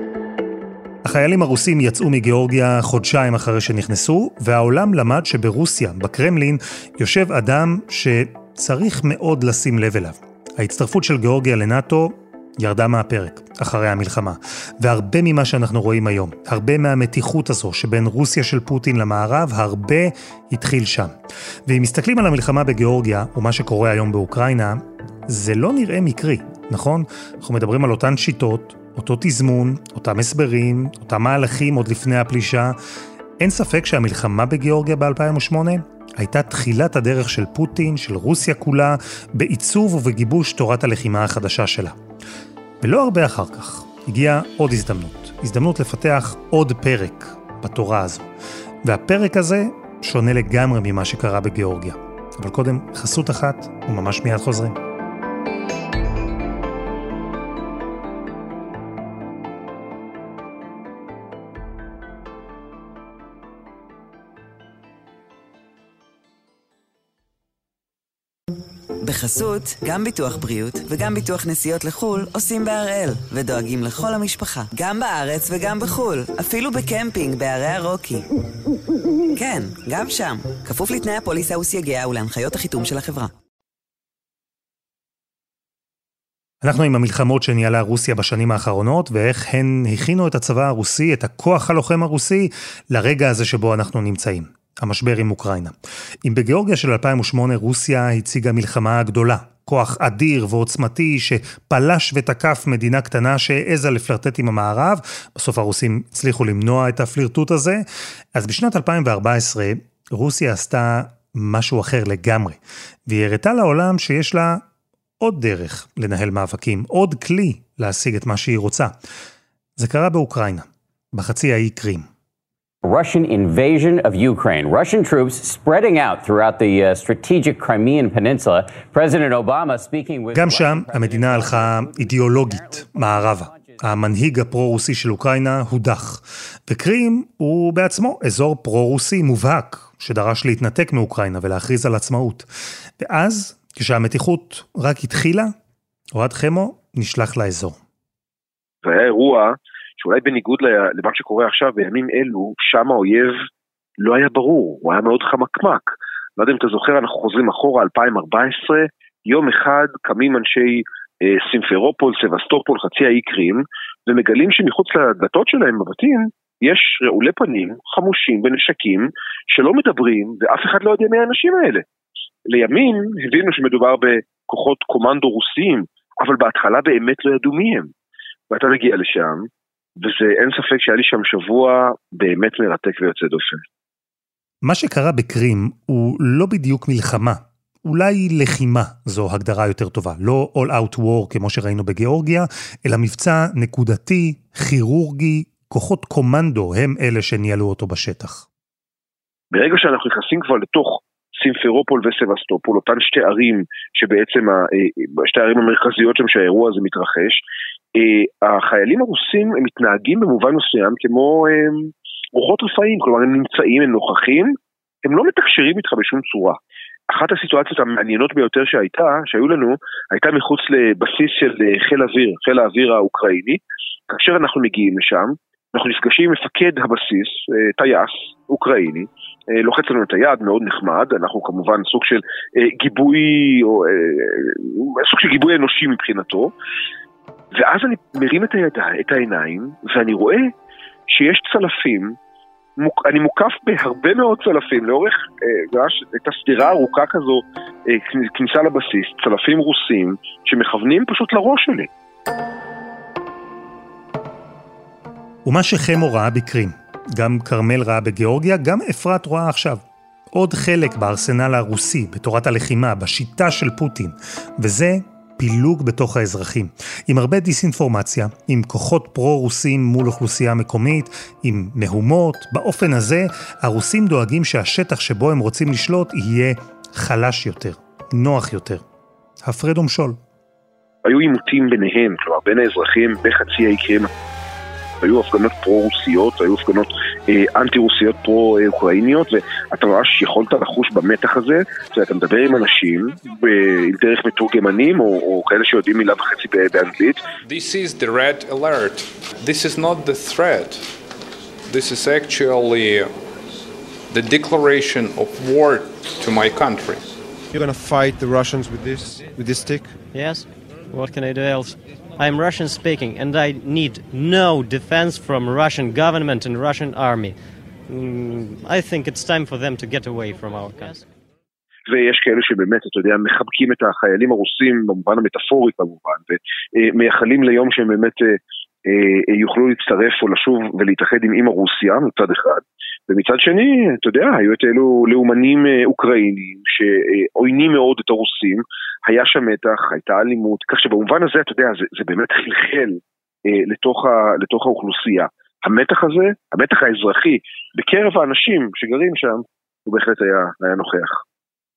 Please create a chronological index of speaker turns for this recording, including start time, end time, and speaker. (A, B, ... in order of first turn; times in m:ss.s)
0:01.0-0:21.1 A
0:21.6-0:32.8 A
0:33.4-0:42.0 A
0:42.8-0:48.3 A
0:48.8-0:54.8 A
1:09.0-1:18.2 B
1:19.3-1:23.3 B
1:26.6-1:54.6 A
1:55.2-1:59.0 A
1:59.8-2:02.0 A
2:02.8-2:12.5 C
2:10.3-2:22.5 A
2:23.0-2:25.5 A
2:26.1-2:27.8 A
2:28.8-2:33.4 D
2:34.0-2:51.8 D
2:52.5-2:57.9 D
2:58.5-2:59.5 D
3:00.0-3:03.6 D
3:04.6-3:18.4 A
3:19.5-3:27.4 D
3:27.9-3:34.5 D
3:35.0-3:36.6 D
3:37.1-3:56.5 D
3:57.6-4:00.5 D
4:01.1-4:02.2 D
4:02.8-4:11.9 D
4:15.4-4:19.8 A
4:20.3-4:38.8 A
4:39.4-4:40.2 A
4:41.0-4:44.1 D
4:45.0-4:57.2 D
4:57.4-5:01.0 E
5:01.7-5:03.1 E
5:04.1-5:07.0 E
5:07.5-5:10.0 F
5:10.1-5:21.0 G
5:21.9-5:51.2 D